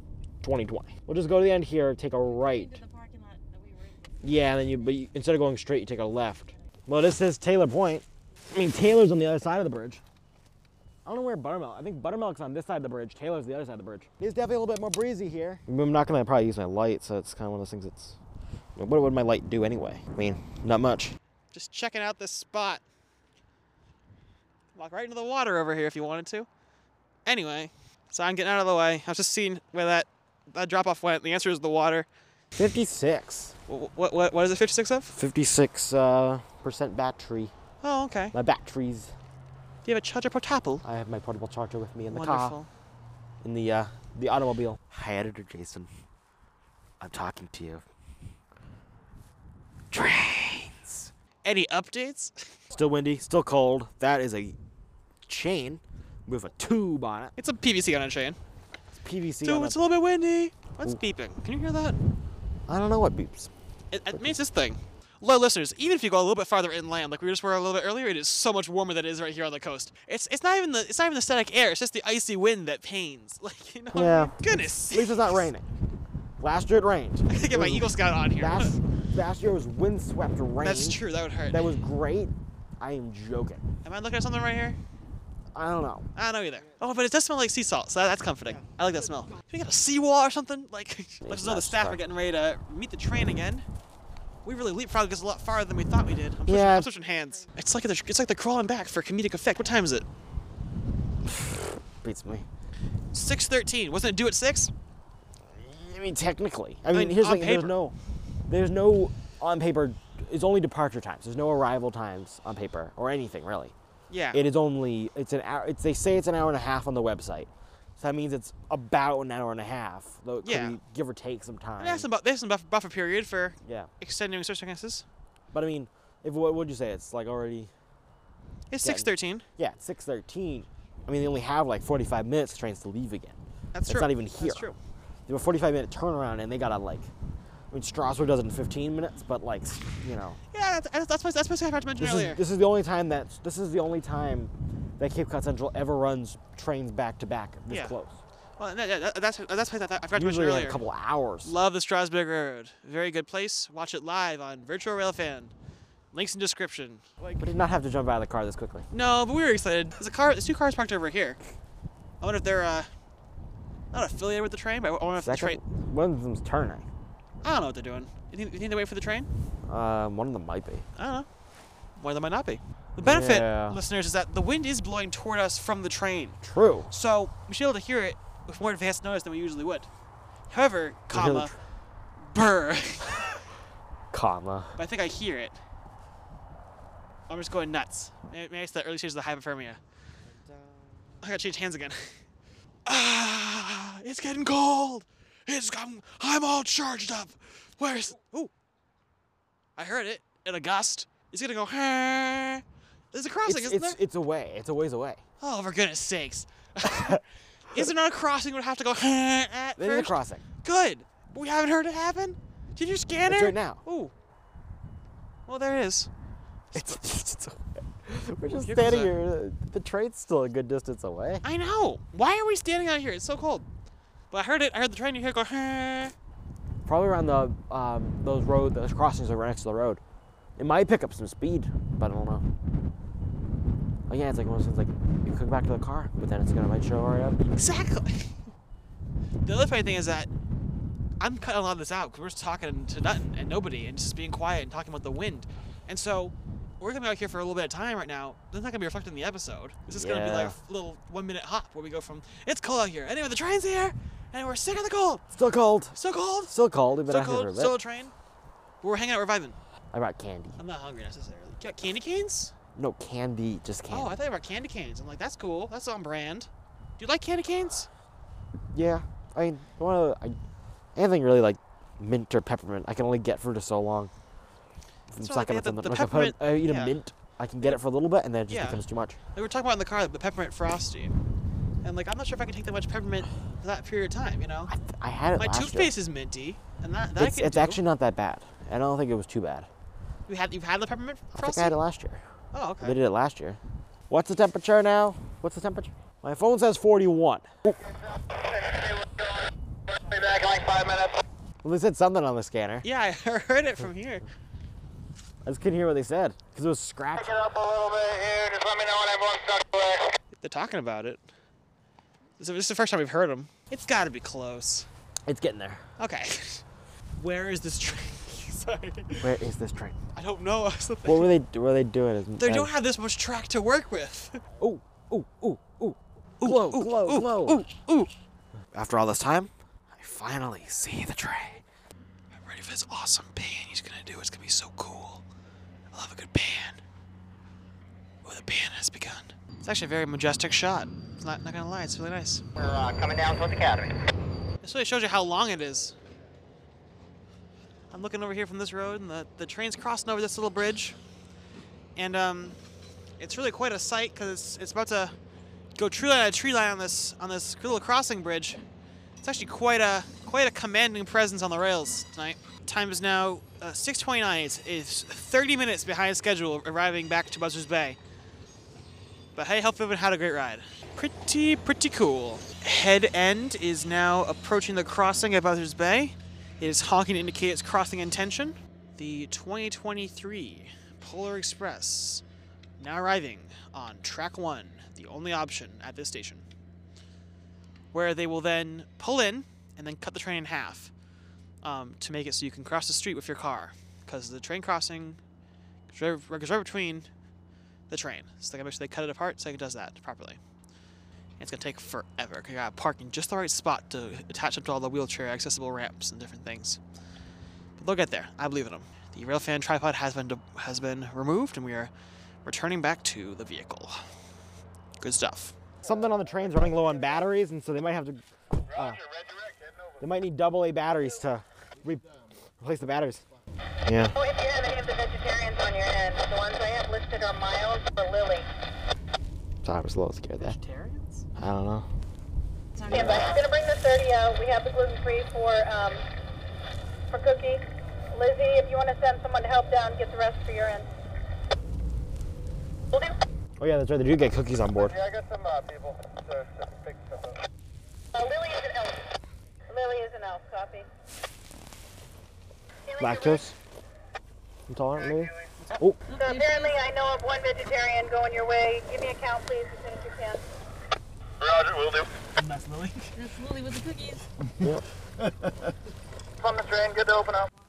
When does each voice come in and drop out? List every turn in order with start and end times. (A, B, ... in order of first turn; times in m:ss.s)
0:00.4-0:02.8 A
0:02.2-0:04.9 B
0:04.2-0:10.0 A
0:11.0-0:18.2 A
0:18.8-0:21.2 A
0:21.5-0:22.8 C
0:24.7-0:26.5 C
0:27.2-0:32.1 C
0:32.5-0:33.6 A
0:33.7-0:35.2 C
0:35.1-0:37.5 A
0:37.8-0:38.3 C
0:38.3-0:39.1 A
0:39.8-0:40.8 C
0:40.8-0:42.6 A
0:42.1-0:42.7 C
0:43.4-0:45.9 A
0:47.0-0:47.8 A
0:49.9-0:51.1 A
0:51.4-0:52.5 C
0:52.7-0:54.6 A
0:55.2-0:57.3 A
0:57.4-0:58.4 C
0:59.0-0:59.8 A
0:59.4-1:02.0 C
1:02.7-1:03.5 A
1:03.9-1:15.5 C
1:04.1-1:04.4 A
1:13.9-1:15.7 A
1:16.4-1:23.6 A
1:17.3-1:18.8 C
1:20.6-1:21.7 C
1:23.8-1:24.8 C
1:25.5-1:26.1 A
1:26.1-1:33.6 C
1:31.2-1:32.0 A
1:34.4-1:40.1 C
1:36.4-1:36.9 A
1:41.3-1:42.4 A
1:43.1-1:44.7 C
1:45.5-1:47.9 A
1:46.9-1:47.7 C
1:48.5-1:53.7 A
1:54.1-1:54.4 C
1:54.3-2:02.1 A
2:00.4-2:00.8 C
2:01.8-2:05.0 C
2:03.6-2:03.9 A
2:05.5-2:07.7 A
2:08.7-2:09.4 C
2:08.8-2:14.7 A
2:13.7-2:14.8 C
2:15.3-2:17.1 A
2:17.7-2:20.4 A
2:20.5-2:22.4 C
2:22.0-2:28.2 A
2:27.7-2:28.0 C
2:28.6-2:30.8 C
2:30.2-2:31.5 A
2:31.4-2:35.5 C
2:36.1-2:37.4 C
2:37.4-2:38.8 A
2:38.9-2:41.4 C
2:42.2-2:42.9 C
2:43.9-2:45.6 C
2:45.2-2:46.9 A
2:47.4-2:49.3 C
2:49.6-2:50.8 A
2:51.0-2:51.3 C
2:52.0-2:59.9 C
2:53.0-2:53.8 A
2:56.4-2:56.9 A
3:00.5-3:01.5 C
3:01.1-3:01.5 A
3:02.2-3:03.4 C
3:04.1-3:04.8 A
3:04.8-3:05.6 C
3:07.3-3:09.8 C
3:10.4-3:11.2 A
3:11.2-3:12.2 C
3:12.8-3:18.5 C
3:19.8-3:24.0 C
3:23.4-3:25.2 A
3:25.4-3:34.1 C
3:29.8-3:30.4 A
3:33.3-3:33.8 A
3:35.5-3:36.1 C
3:36.7-3:41.4 A
3:38.5-3:39.1 C
3:41.4-3:43.7 C
3:44.3-3:46.1 C
3:46.8-3:50.0 A
3:50.6-3:52.4 A
3:54.1-3:57.4 A
3:57.5-3:58.4 C
3:59.4-4:00.3 C
4:01.2-4:15.2 C
4:09.9-4:10.6 A
4:15.3-4:17.8 A
4:15.9-4:16.5 C
4:17.1-4:18.1 C
4:18.8-4:19.6 C
4:19.9-4:20.6 A
4:20.6-4:22.5 C
4:22.8-4:24.2 A
4:23.9-4:27.9 C
4:28.7-4:30.4 A
4:30.9-4:34.1 A
4:35.1-4:39.2 A
4:35.2-4:37.0 C
4:38.5-4:41.2 C
4:41.8-4:44.7 C
4:44.7-4:45.9 A
4:45.4-4:47.8 C
4:47.2-4:49.7 A
4:50.3-4:51.8 C
4:51.3-4:52.2 A
4:52.5-4:53.0 C
4:52.8-4:57.8 A
4:58.1-5:01.2 D
5:01.6-5:02.8 A
5:02.8-5:04.3 C
5:05.4-5:07.4 A
5:07.1-5:10.2 D
5:10.4-5:11.2 C
5:12.4-5:14.9 C
5:15.2-5:15.8 A
5:16.0-5:16.6 C
5:17.2-5:19.3 C
5:19.2-5:20.0 A
5:20.1-5:21.4 C
5:21.0-5:22.7 A
5:22.4-5:24.4 C
5:24.6-5:27.6 A
5:26.4-5:28.1 C
5:28.7-5:31.6 A
5:32.4-5:35.2 C
5:35.9-5:36.8 C
5:38.2-5:42.4 C
5:42.6-5:44.0 D
5:44.6-5:46.0 C
5:47.9-5:51.0 C
5:52.0-5:52.6 C
5:53.2-5:55.1 C
5:55.8-5:58.6 C
5:59.2-6:08.0 C
6:09.4-6:22.2 C
6:22.8-6:26.4 C
6:27.9-6:30.9 C
6:31.6-6:35.2 C
6:35.9-6:37.1 C
6:37.9-6:40.4 C
6:41.4-6:46.8 C
6:47.8-6:51.9 C
6:52.4-6:54.1 C
6:55.0-6:55.6 C
6:55.8-6:59.0 A
6:58.7-6:59.9 D
7:00.0-7:03.2 A
7:03.8-7:04.2 A
7:04.2-7:08.5 E
7:09.6-7:10.6 A
7:10.4-7:11.2 C
7:11.4-7:11.9 A
7:12.8-7:13.4 B
7:12.8-7:16.1 E
7:12.9-7:13.2 A
7:17.1-7:20.9 E
7:22.9-7:23.2 E
7:23.6-7:24.9 A
7:24.8-7:27.4 D
7:28.1-7:29.0 E
7:29.7-7:30.9 E
7:32.9-7:33.5 E
7:33.0-7:33.5 A
7:34.7-7:36.0 A
7:35.0-7:35.3 D
7:36.1-7:36.8 B
7:36.1-7:40.4 E
7:41.4-7:42.1 D
7:42.3-7:43.2 C
7:43.1-7:44.3 B
7:46.4-7:47.5 D